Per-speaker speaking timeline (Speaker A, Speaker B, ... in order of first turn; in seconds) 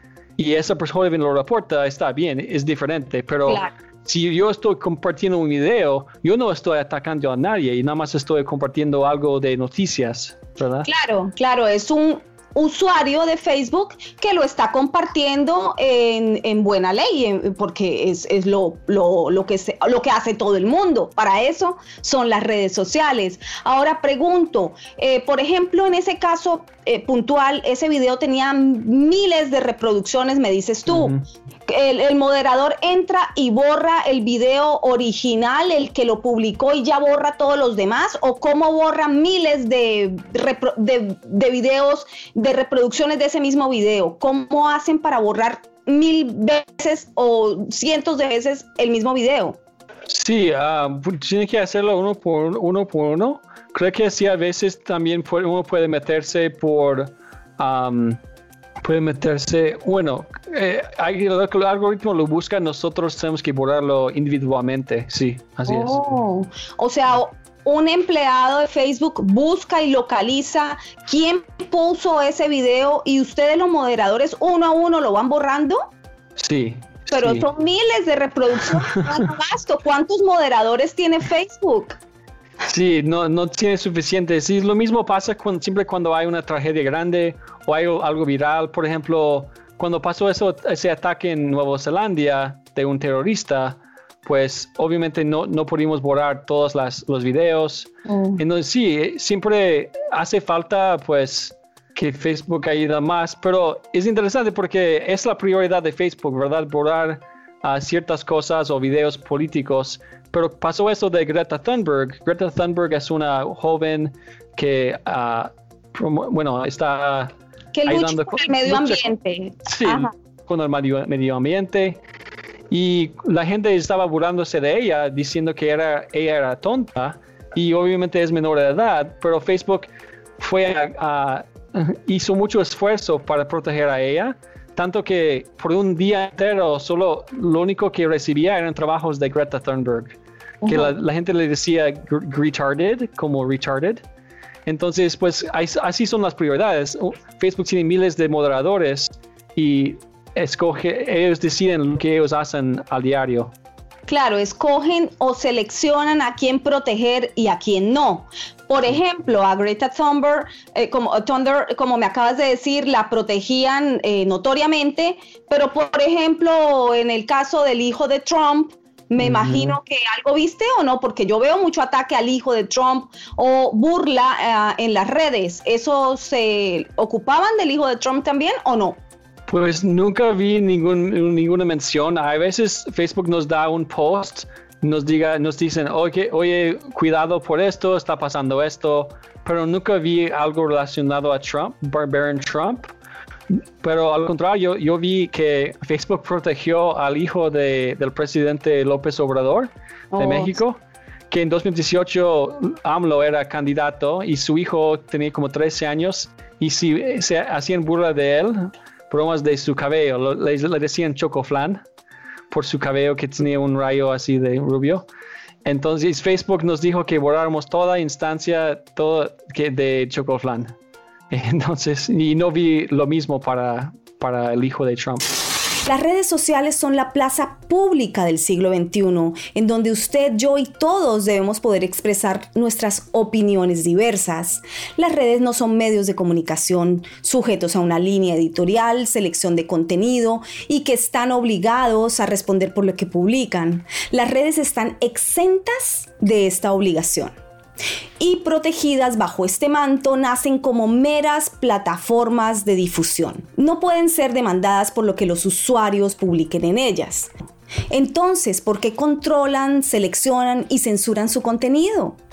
Speaker A: 0.4-10.9, 30.9-31.2, 50.1-58.2, 58.8-66.0, 76.4-77.5, 82.6-117.3, 117.9-119.1, 119.7-122.0, 122.7-144.0, 144.7-153.5, 169.2-169.8, 179.5-192.9, 193.5-200.8, 201.3-211.8, 212.5-215.1, 215.7-220.7, 221.3-225.3
Speaker B: 3.5-3.7, 10.8-31.1, 31.7-49.6, 65.7-75.9, 77.1-82.0, 98.1-98.4, 117.7-120.1, 140.6-140.9, 154.1-179.0, 200.1-200.6
Speaker C: 225.9-247.3, 248.2-257.3, 257.9-262.2